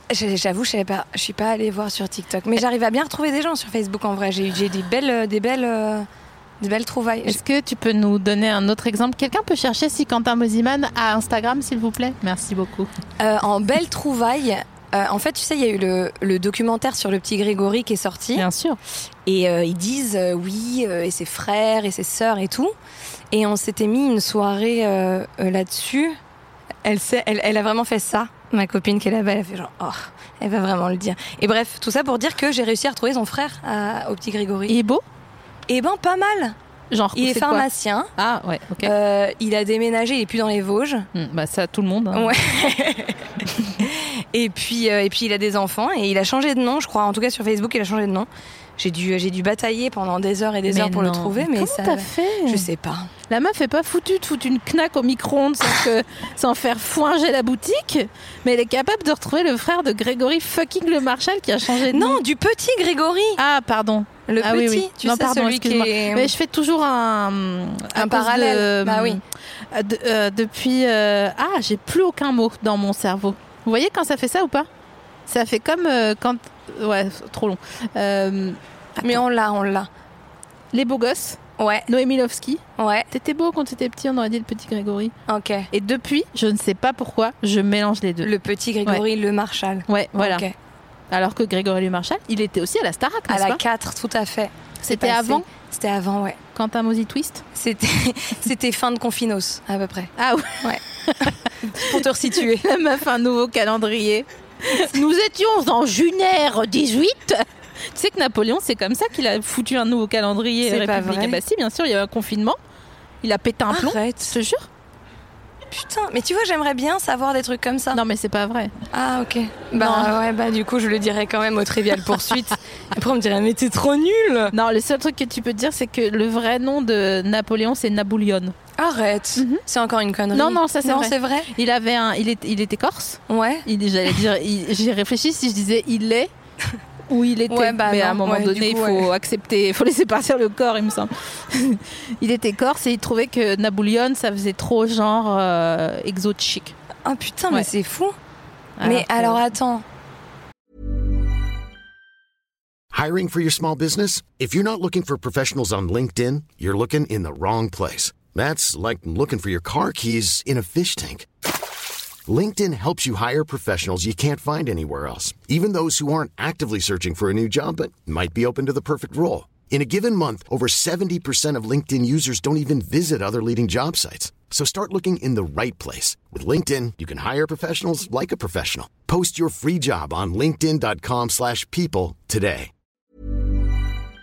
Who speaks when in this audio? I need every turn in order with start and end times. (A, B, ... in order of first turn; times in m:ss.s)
0:00.1-0:06.1 A
0:06.6-0:07.4 A
0:07.2-0:12.9 B
0:13.2-0:18.5 A
0:18.4-0:18.8 B
0:19.2-0:22.7 A
0:23.3-0:26.2 A
0:26.8-0:34.8 A
0:34.7-0:35.0 B
0:35.7-0:36.6 A
0:36.9-0:38.9 B
0:37.1-0:38.1 A
0:38.8-0:41.1 A
0:41.1-0:42.4 B
0:42.1-0:53.1 A
0:50.7-0:52.7 B
0:53.3-1:02.2 B
1:01.9-1:03.4 A
1:03.4-1:14.7 B
1:04.3-1:06.3 A
1:07.9-1:09.2 A
1:15.3-1:19.2 B
1:19.0-1:19.9 A
1:20.7-1:25.1 B
1:21.6-1:21.9 A
1:22.8-1:23.1 A
1:25.3-1:25.7 A
1:25.7-1:28.3 B
1:28.2-1:30.5 A
1:29.9-1:30.4 B
1:31.1-1:33.6 B
1:33.3-1:36.4 A
1:34.8-1:35.4 B
1:36.5-1:37.4 B
1:37.5-1:42.6 A
1:40.2-1:52.6 B
1:50.6-1:51.4 A
1:53.2-1:54.7 B
1:53.7-1:54.4 A
1:55.7-1:58.0 A
1:57.9-1:58.7 B
1:58.9-2:04.5 A
1:59.8-2:00.1 B
2:04.5-2:08.5 B
2:08.8-2:11.5 A
2:09.4-2:09.6 B
2:10.3-2:16.3 B
2:13.3-2:13.7 A
2:17.1-2:26.7 B
2:17.5-2:19.1 A
2:27.0-2:28.1 A
2:28.8-2:29.4 B
2:28.8-2:29.8 A
2:32.9-2:41.3 C
2:42.3-3:02.7 C